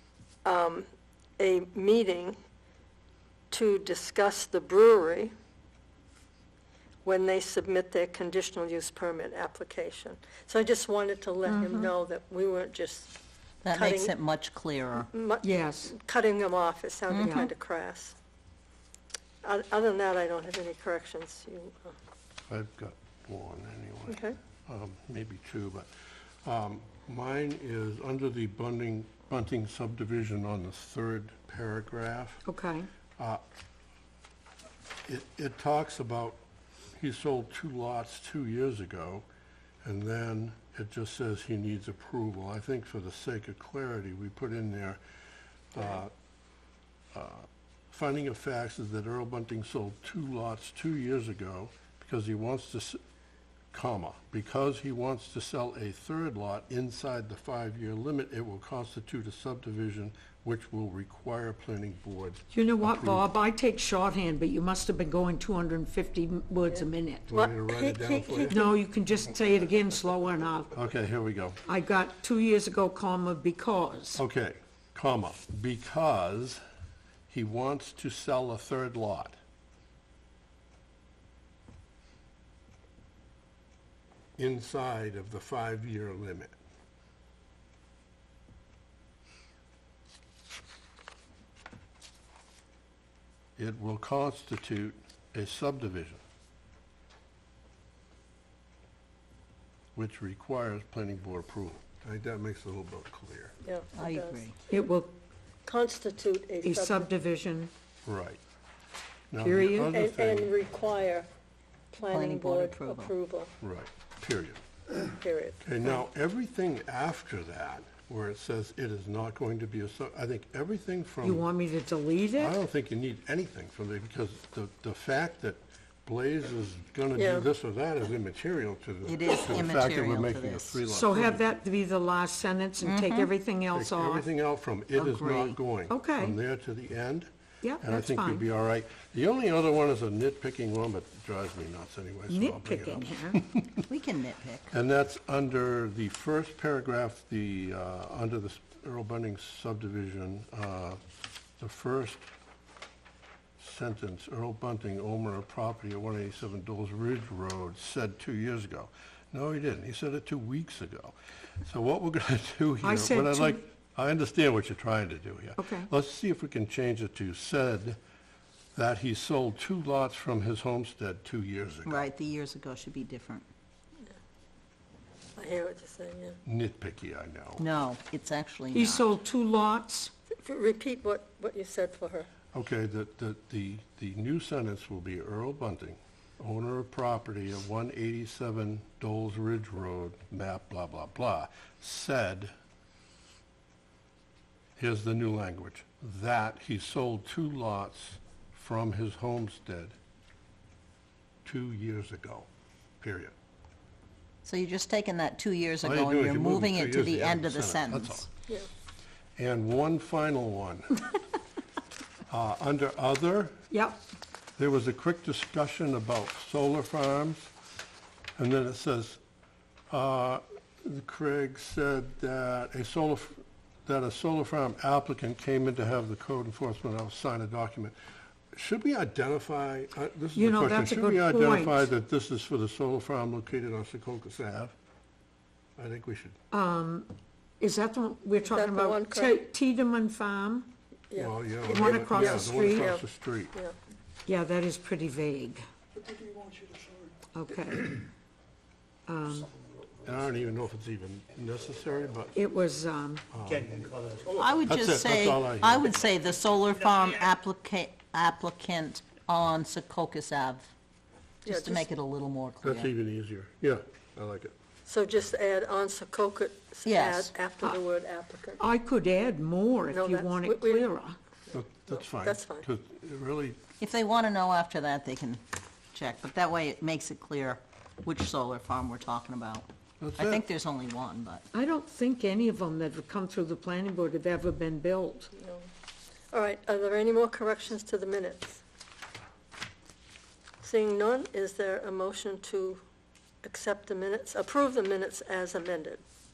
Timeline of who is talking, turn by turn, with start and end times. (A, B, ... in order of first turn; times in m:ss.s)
0:00.4-0:02.4 A
0:03.5-0:05.3 A
0:07.0-0:13.1 A
0:11.5-0:11.9 B
0:13.6-0:15.1 C
0:13.7-0:14.1 A
0:15.1-0:18.2 A
0:15.4-0:15.9 B
0:17.1-0:17.5 C
0:19.4-0:22.0 A
0:22.5-0:25.9 D
0:24.1-0:24.4 A
0:26.4-0:32.4 D
0:32.4-0:32.9 B
0:35.1-0:36.4 D
0:36.9-0:39.2 D
0:39.8-0:45.0 D
0:45.7-0:46.1 D
0:47.1-0:53.0 D
0:53.7-1:03.3 D
1:02.5-1:07.3 B
1:06.7-1:08.7 A
1:07.3-1:08.6 D
1:08.5-1:10.7 B
1:10.7-1:11.6 D
1:11.7-1:14.2 B
1:14.1-1:16.6 D
1:17.3-1:19.4 D
1:24.4-1:26.6 D
1:33.6-1:36.2 D
1:40.0-1:43.6 D
1:43.6-1:44.8 A
1:44.0-1:44.6 C
1:44.7-1:45.1 B
1:45.6-1:47.1 A
1:46.6-1:47.7 B
1:48.0-1:48.4 D
1:49.3-1:50.5 D
1:49.4-1:50.0 B
1:49.9-1:51.3 A
1:51.9-1:53.5 A
1:52.1-1:53.1 C
1:53.6-1:54.6 D
1:55.1-1:55.6 A
1:55.6-2:01.5 D
2:01.2-2:02.6 B
2:02.4-2:11.5 D
2:07.2-2:07.5 A
2:09.0-2:10.8 C
2:10.9-2:14.3 B
2:12.8-2:13.3 C
2:13.7-2:17.3 D
2:14.9-2:15.6 C
2:15.9-2:16.4 B
2:17.6-2:18.4 B
2:17.8-2:23.8 D
2:22.3-2:23.4 B
2:23.9-2:24.7 C
2:24.7-2:31.0 D
2:31.6-2:32.3 D
2:33.6-2:48.0 D
2:42.8-2:43.6 B
2:45.6-2:45.9 B
2:48.8-2:52.1 D
2:51.8-2:53.4 C
2:55.4-2:56.4 A
2:56.4-2:57.6 D
2:57.6-2:59.1 C
2:58.7-3:00.1 B
3:00.4-3:02.3 A
3:02.5-3:12.5 D
3:14.8-3:20.0 D
3:21.4-3:22.5 D
3:23.0-3:23.4 D
3:24.4-3:28.3 C
3:25.8-3:28.3 D
3:29.4-3:31.0 D
3:32.3-3:33.6 D
3:33.7-3:34.0 B
3:34.6-3:37.5 D
3:38.4-3:39.2 D
3:39.9-3:48.0 D
3:48.5-3:54.7 D
3:50.4-3:51.9 B
3:55.8-3:56.4 D
3:56.5-4:00.7 B
3:58.4-3:59.4 A
4:01.1-4:03.8 A
4:01.2-4:03.5 D
4:01.7-4:02.9 B
4:04.3-4:05.6 B
4:07.3-4:08.0 B
4:09.1-4:09.5 B
4:10.0-4:12.4 D
4:12.4-4:13.3 B
4:13.3-4:14.0 D
4:14.4-4:20.7 C
4:14.6-4:16.0 D
4:21.4-4:22.9 C
4:21.5-4:21.9 A
4:22.6-4:24.5 D
4:24.9-4:28.6 A
4:26.9-4:27.3 C
4:28.6-4:31.2 B
4:29.9-4:30.9 A
4:31.5-4:33.6 D
4:31.8-4:32.7 A
4:33.8-4:35.4 C
4:35.9-4:39.7 C
4:40.0-4:40.4 D
4:40.2-4:41.4 C
4:41.5-4:45.3 B
4:45.4-4:45.7 A
4:46.3-4:48.6 A
4:50.6-4:52.8 A
4:53.4-4:56.0 A